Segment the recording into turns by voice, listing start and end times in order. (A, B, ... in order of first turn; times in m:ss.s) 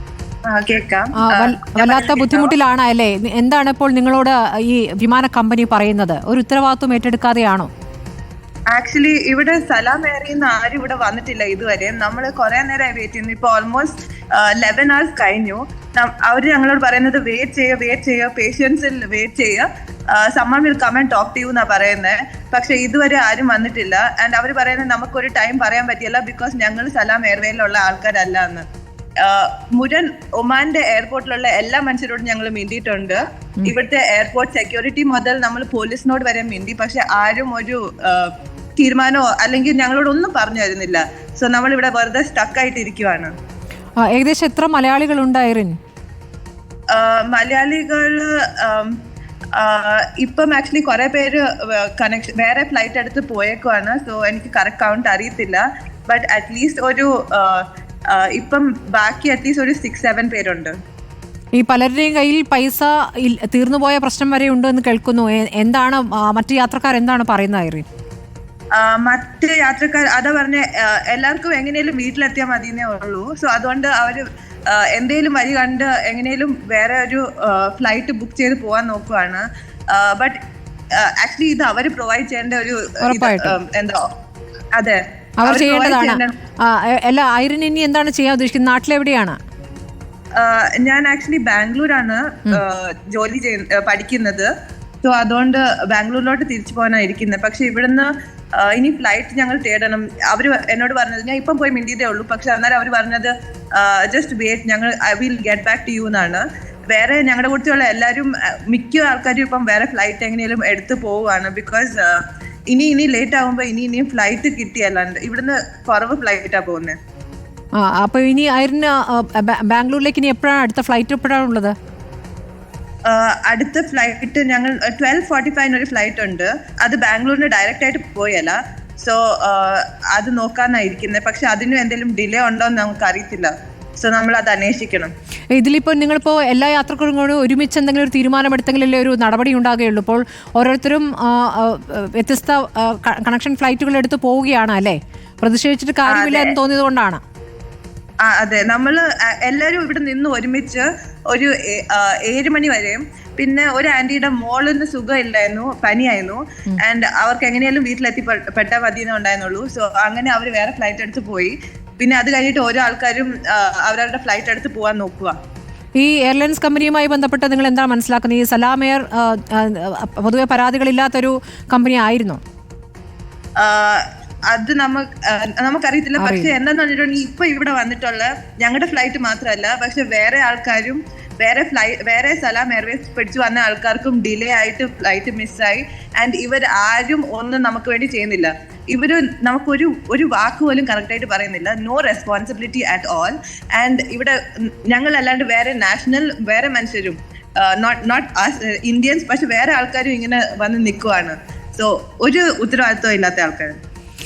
0:00.5-0:02.5 A
0:01.2-0:07.7 B
0:08.7-0:28.6 A
0:29.2-0:43.3 A
0:44.0-0:45.8 B
0:46.9-0:49.0 A
0:49.5-1:00.7 A
1:01.6-1:07.8 B
1:08.8-1:20.4 A
1:21.0-1:24.0 A
1:23.0-1:23.6 B
1:24.8-1:26.3 A
1:25.4-1:29.4 B
1:30.4-1:34.5 A
1:35.0-1:52.2 A
1:52.7-1:57.0 A
1:57.8-2:01.7 B
2:03.1-2:15.1 A
2:15.5-2:27.2 B
2:26.1-2:26.5 A
2:28.2-2:45.3 A
2:46.0-2:52.4 B
2:53.6-3:23.8 A
2:56.2-2:56.5 B